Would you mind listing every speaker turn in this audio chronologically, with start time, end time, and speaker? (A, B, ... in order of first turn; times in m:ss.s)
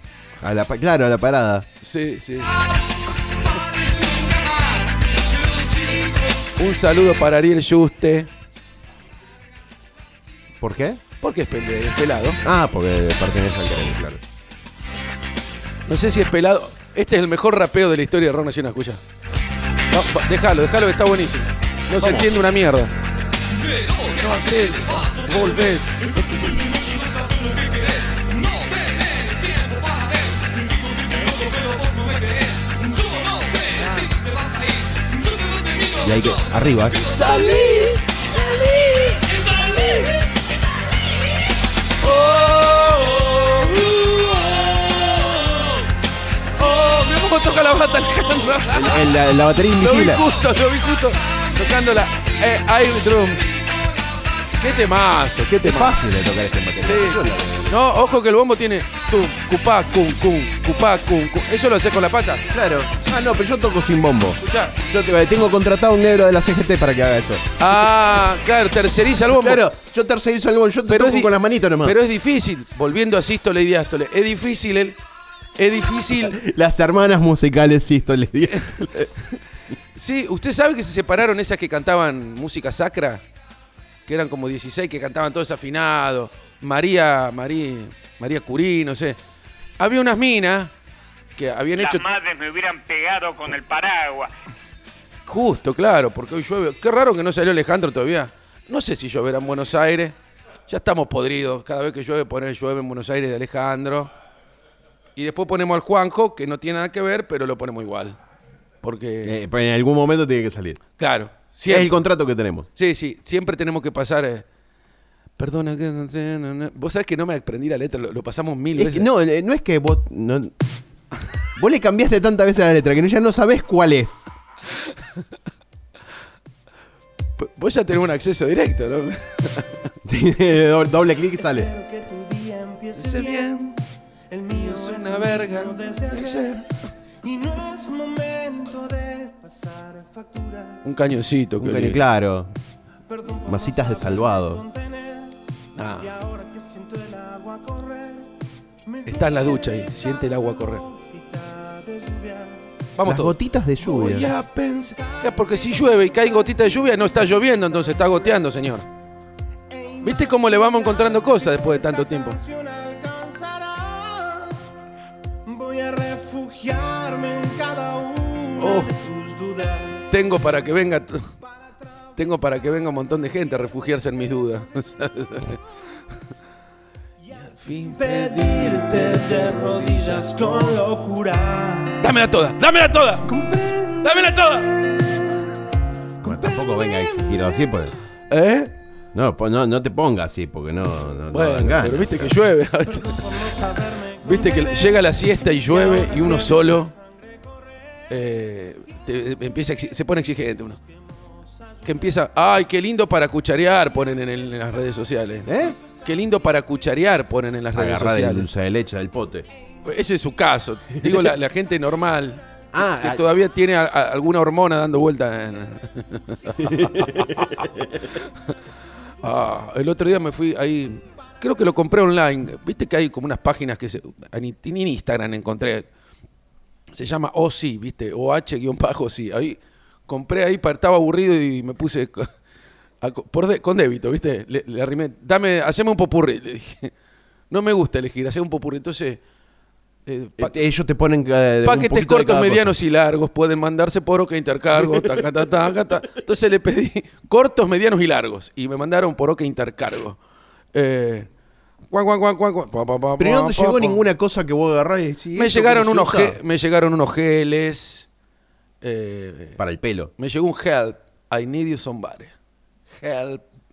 0:00.4-0:01.7 A
0:01.8-0:02.6 B
0:06.6-0:08.3 B
0:10.6-0:11.0 A
0:11.2-0:12.4 B
0:12.4-0:14.2 A
0:15.9-0:19.0 B
0:19.9-0:22.9 B
0:22.0-0:22.3 A
0:24.0-0:26.9 B
0:35.9-0:37.1 A
0:37.1-0:38.0 B
0:38.9-0:40.1 B
0:42.0-0:45.5 B
0:46.6-0:49.1 B
0:48.7-0:50.2 A
0:49.8-0:53.6 B
0:54.6-0:56.0 B
0:55.6-0:57.8 A
0:56.8-1:02.4 B
1:02.5-1:07.6 A
1:04.4-1:04.8 B
1:07.6-1:09.6 B
1:09.3-1:12.0 A
1:10.9-1:15.0 B
1:15.6-1:16.4 B
1:16.1-1:19.1 A
1:20.0-1:23.2 B
1:24.1-1:29.2 B
1:29.8-1:30.7 B
1:31.4-1:32.1 B
1:31.7-1:34.3 C
1:35.2-1:40.2 B
1:40.7-1:44.1 B
1:45.2-1:48.2 B
1:48.8-1:49.4 B
1:49.2-1:50.8 A
1:51.0-1:52.0 B
1:51.7-1:52.7 A
1:52.8-1:54.5 B
1:55.4-1:59.1 B
1:58.8-2:00.5 A
2:01.6-2:04.3 A
2:07.4-2:09.9 B
2:10.0-2:11.7 A
2:11.4-2:16.7 D
2:13.0-2:13.7 B
2:14.6-2:16.7 B
2:17.2-2:20.8 D
2:20.8-2:22.1 B
2:21.6-2:22.5 A
2:23.1-2:25.4 D
2:23.5-2:24.6 A
2:25.8-2:26.1 B
2:26.0-2:28.3 D
2:28.9-2:32.9 D
2:29.1-2:30.8 B
2:33.0-2:38.9 B
2:33.0-2:34.3 A
2:34.0-2:38.4 D
2:39.7-2:44.6 D
2:40.0-2:42.4 B
2:45.4-2:50.1 D
2:48.6-2:48.9 B
2:50.1-2:51.3 B
2:52.2-2:55.6 B
2:52.2-2:52.5 D
2:57.2-3:02.0 D
2:57.4-3:00.8 B
3:02.0-3:03.4 B
3:03.2-3:05.4 D
3:04.0-3:04.8 B
3:06.2-3:07.6 D
3:06.2-3:08.0 A
3:08.3-3:08.7 B
3:09.1-3:12.3 A
3:11.3-3:13.5 B
3:12.8-3:17.0 D
3:14.2-3:16.9 B
3:18.1-3:20.8 B
3:21.8-3:28.5 B
3:25.5-3:25.8 A
3:27.7-3:29.5 A
3:29.8-3:38.6 B
3:31.0-3:31.3 A
3:32.7-3:33.2 A
3:36.6-3:37.8 A
3:39.2-3:45.9 B
3:46.9-3:52.3 B
3:53.0-3:56.9 B
3:57.5-3:59.2 B
4:00.1-4:00.6 B
4:00.4-4:02.8 A
4:01.6-4:10.2 B
4:04.8-4:05.1 A
4:10.7-4:11.3 B
4:11.9-4:14.0 B
4:13.2-4:16.4 A
4:15.4-4:18.1 B
4:18.8-4:19.6 B
4:19.6-4:20.1 A
4:20.2-4:22.3 B
4:22.9-4:23.4 B